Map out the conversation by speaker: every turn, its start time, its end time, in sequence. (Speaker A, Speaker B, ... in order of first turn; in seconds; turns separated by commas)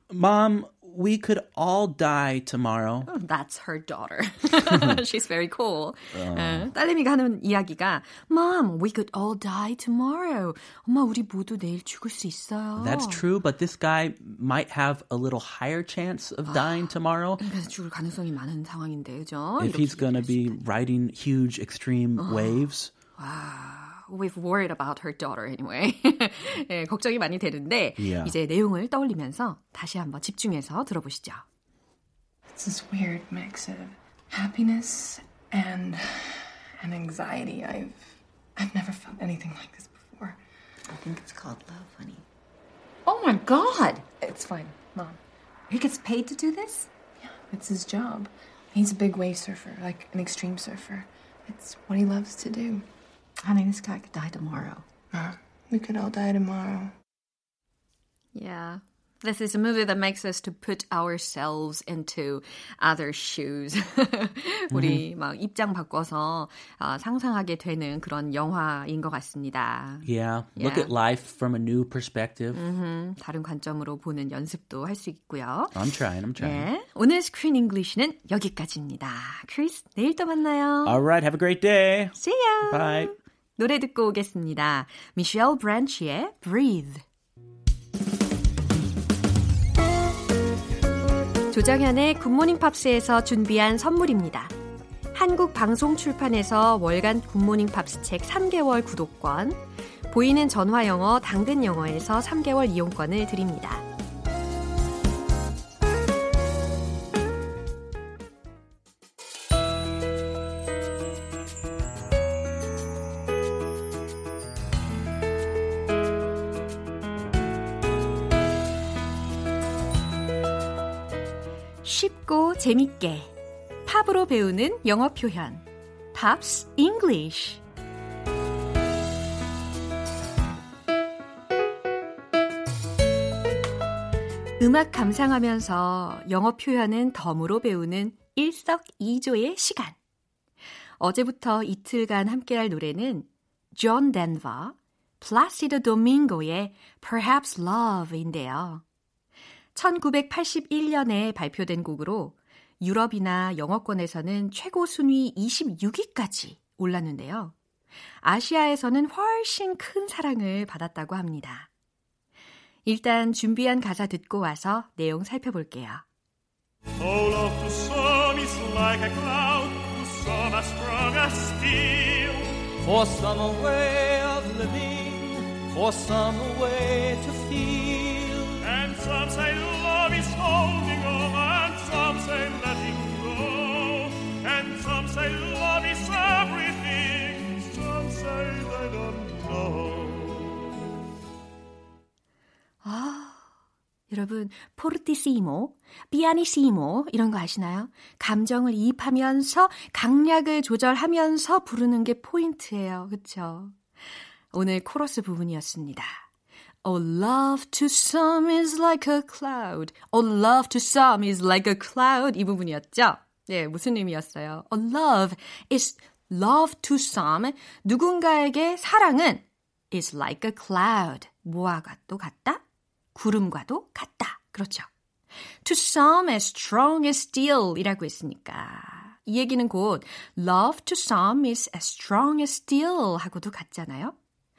Speaker A: 0.1-3.1, Speaker B: 3.1-13.2, Speaker A: 4.6-5.0, Speaker A: 6.1-6.7, Speaker A: 12.8-17.4, Speaker B: 16.5-20.6, Speaker A: 19.6-22.9, Speaker B: 22.2-22.6, Speaker B: 23.2-31.4, Speaker A: 28.0-28.3, Speaker C: 32.5-40.4, Speaker D: 40.9-42.2, Speaker D: 43.0-44.0, Speaker C: 44.2-45.2, Speaker D: 45.7-46.9, Speaker C: 47.2-52.8, Speaker D: 53.4-54.9, Speaker C: 55.1-56.9, Speaker B: 58.3-70.9, Speaker A: 64.7-65.0, Speaker A: 70.0-72.6, Speaker B: 72.5-75.8, Speaker A: 75.7-76.7, Speaker B: 76.4-81.0, Speaker A: 80.8-83.1, Speaker B: 82.2-87.0, Speaker B: 91.5-94.5, Speaker B: 95.1-103.8, Speaker B: 121.8-123.3, Speaker B: 123.8-127.6, Speaker B: 134.6-139.9, Speaker B: 141.0-148.8, Speaker B: 149.7-157.5, Speaker B: 158.2-161.7, Speaker B: 162.8-166.0, Speaker E: 167.0-172.6, Speaker F: 172.8-178.6, Speaker E: 178.6-190.6, Speaker B: 192.8-193.4, Speaker B: 194.1-203.8, Speaker B: 204.5-206.2, Speaker B: 206.8-222.6, Speaker B: 223.1-224.9, Speaker B: 225.6-234.1